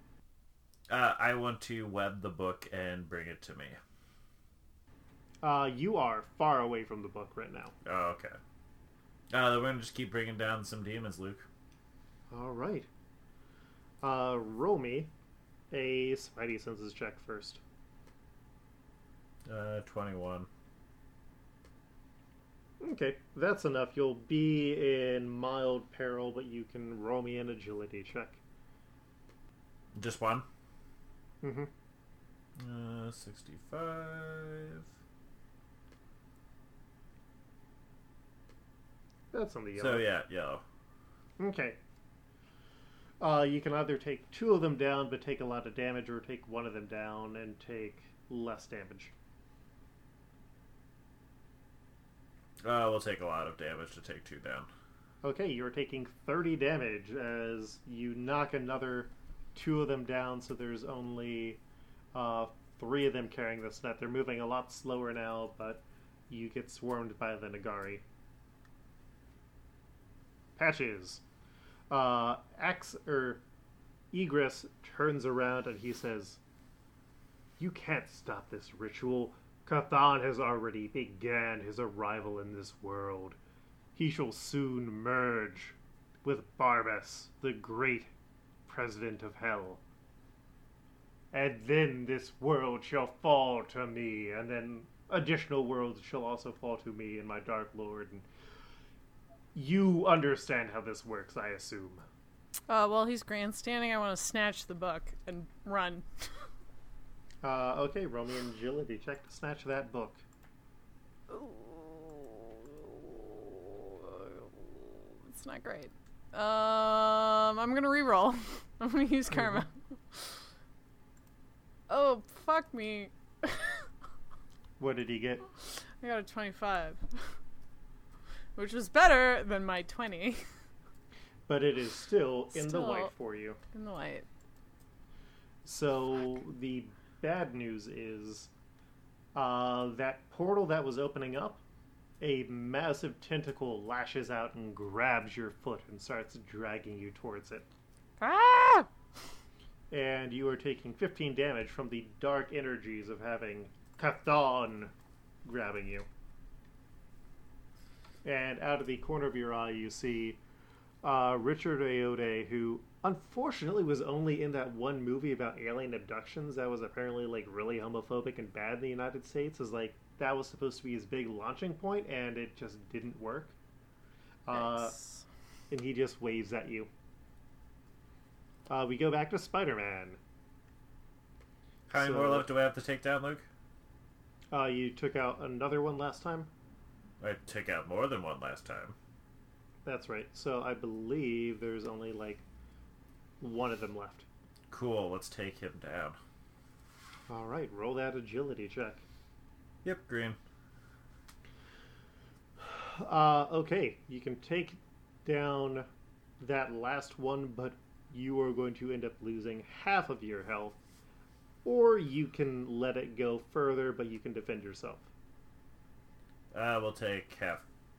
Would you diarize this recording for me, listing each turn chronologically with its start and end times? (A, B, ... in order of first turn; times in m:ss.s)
0:00.9-0:03.8 A
0:05.4-0:07.7 B
0:07.8-0:08.4 A
0:09.3-0:11.5 A
0:12.3-0:12.9 B
0:14.0-0:15.1 B
0:15.7-0:17.6 B
0:19.5-0:20.5 A
0:22.8-0:28.4 B
0:30.0-0:30.5 A
0:31.4-0:31.7 B
0:32.6-0:34.9 A
0:39.3-0:40.1 B
0:39.8-0:40.6 A
0:41.4-0:41.8 B
0:43.2-0:49.1 B
0:52.6-0:54.7 A
0:55.2-1:01.6 B
1:02.1-1:08.0 B
1:10.6-1:11.2 B
1:11.9-1:13.4 B
1:14.1-1:16.4 B
1:17.6-1:23.4 B
1:24.0-1:28.1 B
1:28.7-1:29.8 B
1:31.3-1:38.3 B
1:39.5-1:42.1 B
1:42.7-1:46.5 C
1:47.4-1:50.2 B
1:51.3-2:00.4 C
1:59.3-1:59.6 B
2:01.9-2:03.9 C
2:04.8-2:05.4 B
2:05.6-2:07.3 C
2:08.6-2:10.4 C
2:11.5-2:13.6 B
2:12.5-2:13.1 C
2:13.7-2:14.3 C
2:15.6-2:18.5 B
2:19.4-2:21.6 B
2:22.2-2:27.7 B
2:28.2-2:28.9 C
2:29.9-2:34.9 B
2:35.4-2:36.1 B
2:38.2-2:40.4 B
2:41.0-2:53.6 B
2:54.5-2:55.0 B
2:54.5-2:55.2 C
2:55.7-2:56.9 B
2:58.7-3:00.2 B
3:01.9-3:03.5 A
3:01.9-3:02.5 B
3:04.5-3:06.5 B
3:07.2-3:09.0 A
3:09.8-3:12.4 B
3:13.4-3:14.3 B
3:14.7-3:16.2 A
3:17.3-3:19.0 B
3:19.8-3:20.4 A
3:22.6-3:25.9 B
3:26.4-3:30.8 B
3:31.6-3:35.1 B
3:36.5-3:37.6 A